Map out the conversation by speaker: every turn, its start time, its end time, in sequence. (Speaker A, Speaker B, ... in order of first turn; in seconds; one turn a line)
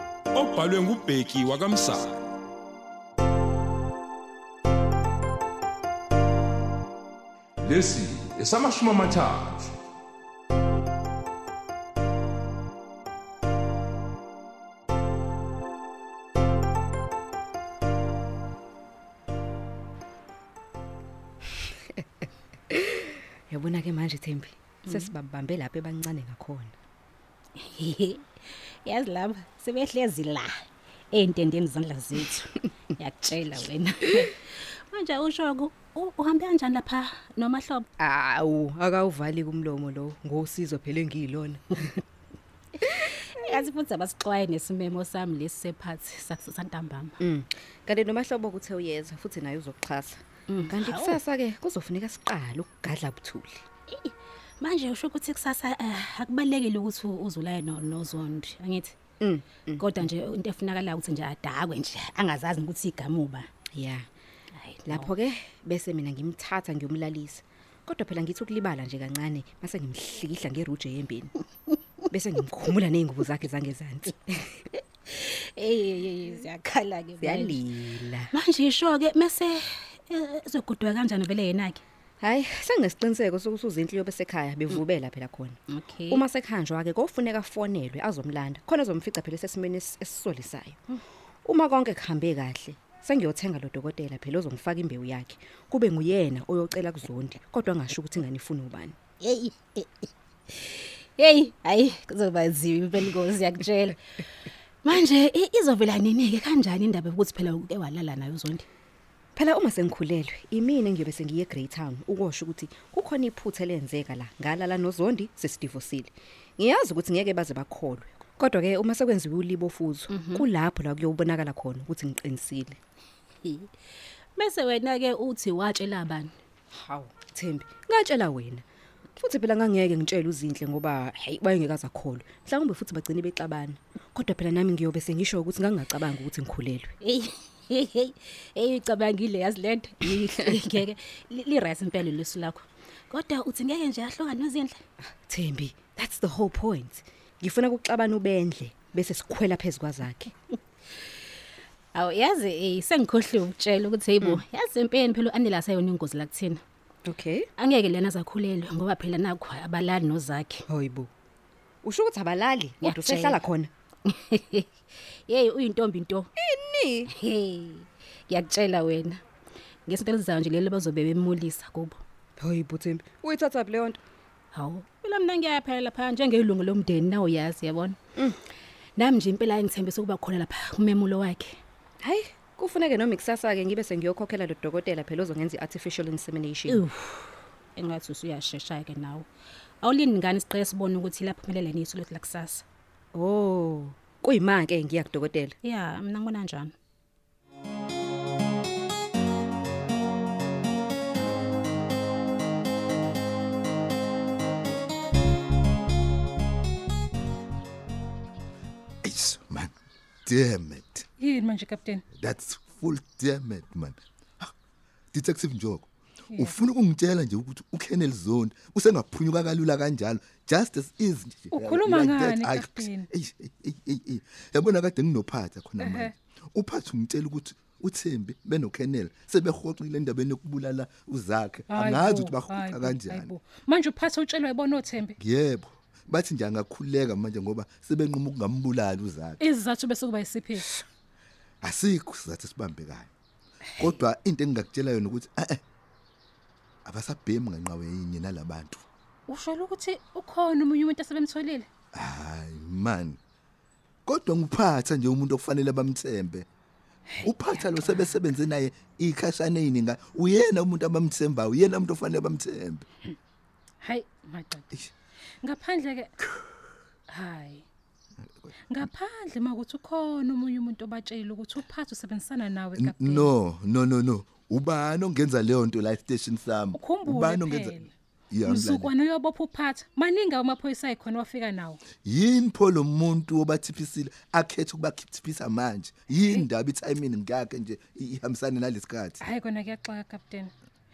Speaker A: 0.3-2.3
Speaker A: 7.6-9.7
Speaker B: 22.7-26.7
Speaker C: 27.6-28.2
Speaker C: 28.9-37.9
Speaker B: 38.0-41.9
Speaker C: 42.9-47.2
Speaker B: 47.2-53.6
Speaker C: 50.5-51.2
Speaker C: 53.9-58.9
Speaker B: 59.2-59.9
Speaker C: 59.8-63.5
Speaker B: 63.7-64.1
Speaker C: 64.5-65.1
Speaker B: 64.9-71.3
Speaker B: 72.1-74.6
Speaker C: 75.1-81.8
Speaker B: 77.2-78.3
Speaker B: 82.2-85.6
Speaker C: 85.7-86.2
Speaker B: 86.1-90.8
Speaker B: 91.5-99.0
Speaker C: 99.2-104.1
Speaker C: 104.8-108.7
Speaker B: 109.4-122.8
Speaker C: 120.1-120.5
Speaker C: 123.4-123.7
Speaker C: 124.4-126.3
Speaker B: 126.7-128.6
Speaker B: 129.2-136.9
Speaker C: 137.0-144.8
Speaker B: 145.3-150.3
Speaker C: 151.9-156.6
Speaker B: 157.1-157.5
Speaker C: 157.6-160.6
Speaker B: 160.7-161.1
Speaker B: 161.8-163.7
Speaker C: 162.8-163.4
Speaker C: 164.1-164.7
Speaker C: 165.3-166.3
Speaker B: 166.4-167.1
Speaker C: 167.1-169.2
Speaker C: 169.9-172.0
Speaker B: 172.4-174.0
Speaker C: 174.5-178.0
Speaker C: 179.0-181.6
Speaker B: 182.0-186.8
Speaker C: 186.7-189.3
Speaker C: 189.8-192.7
Speaker B: 193.1-195.6
Speaker C: 195.6-196.7
Speaker D: 209.0-209.7
Speaker D: 210.3-211.1
Speaker E: 211.2-212.0
Speaker D: 212.2-214.5
Speaker D: 215.1-233.3
Speaker E: 221.5-223.1
Speaker E: 225.8-226.1
Speaker E: 231.7-235.1
Speaker D: 235.2-239.4
Speaker E: 239.4-240.7
Speaker D: 241.6-243.1
Speaker D: 243.8-245.6
Speaker D: 246.9-248.8
Speaker E: 249.3-251.7
Speaker D: 251.9-253.2
Speaker D: 254.1-256.5
Speaker D: 257.2-262.9
Speaker E: 263.8-264.7
Speaker E: 265.4-266.1
Speaker E: 267.1-267.6
Speaker E: 268.7-273.3
Speaker D: 272.8-278.9
Speaker E: 276.8-277.9
Speaker E: 278.4-281.8
Speaker D: 282.0-289.2
Speaker E: 289.2-290.5